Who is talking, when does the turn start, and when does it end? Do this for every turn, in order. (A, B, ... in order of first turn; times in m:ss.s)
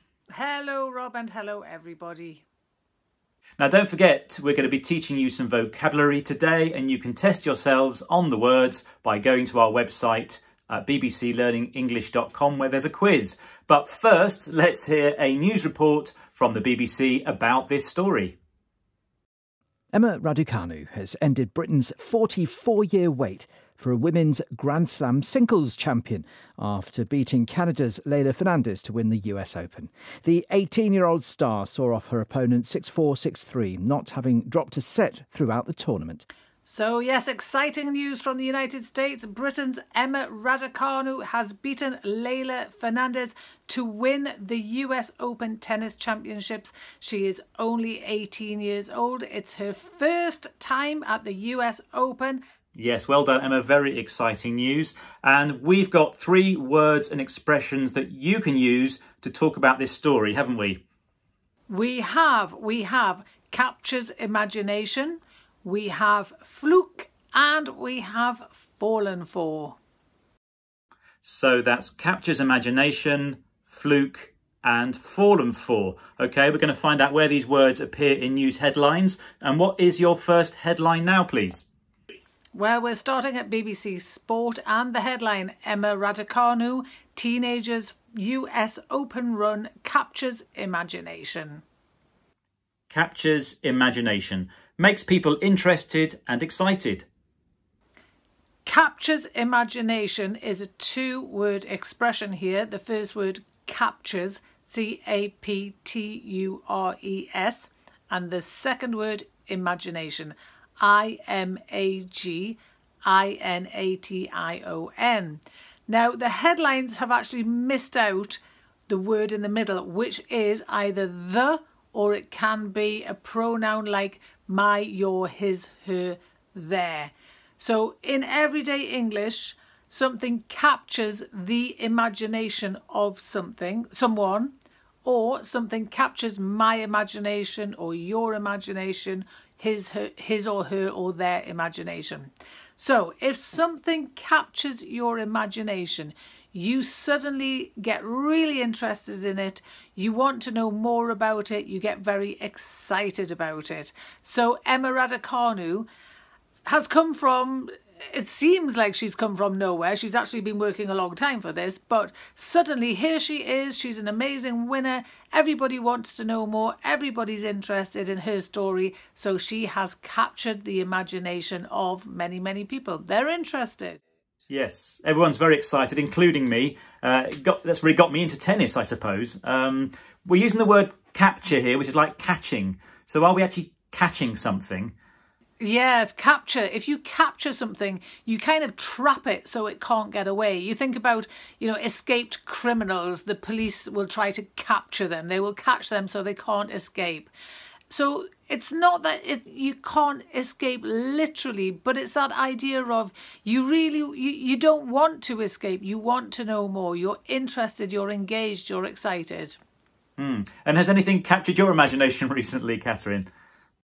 0:00.3-0:02.4 A
0:03.6-0:18.4 B
0:19.9-0:36.2 C
0:36.6-0:52.4 A
0:52.7-1:00.8 B
1:01.7-1:09.8 A
1:11.2-1:21.6 B
1:22.5-1:31.6 A
1:32.9-1:37.0 B
1:38.6-2:14.5 A
2:15.0-2:35.9 A
2:36.6-2:54.0 A
2:54.5-3:04.9 B
3:05.6-3:17.3 A
3:17.9-3:29.6 A
3:30.2-3:33.3 B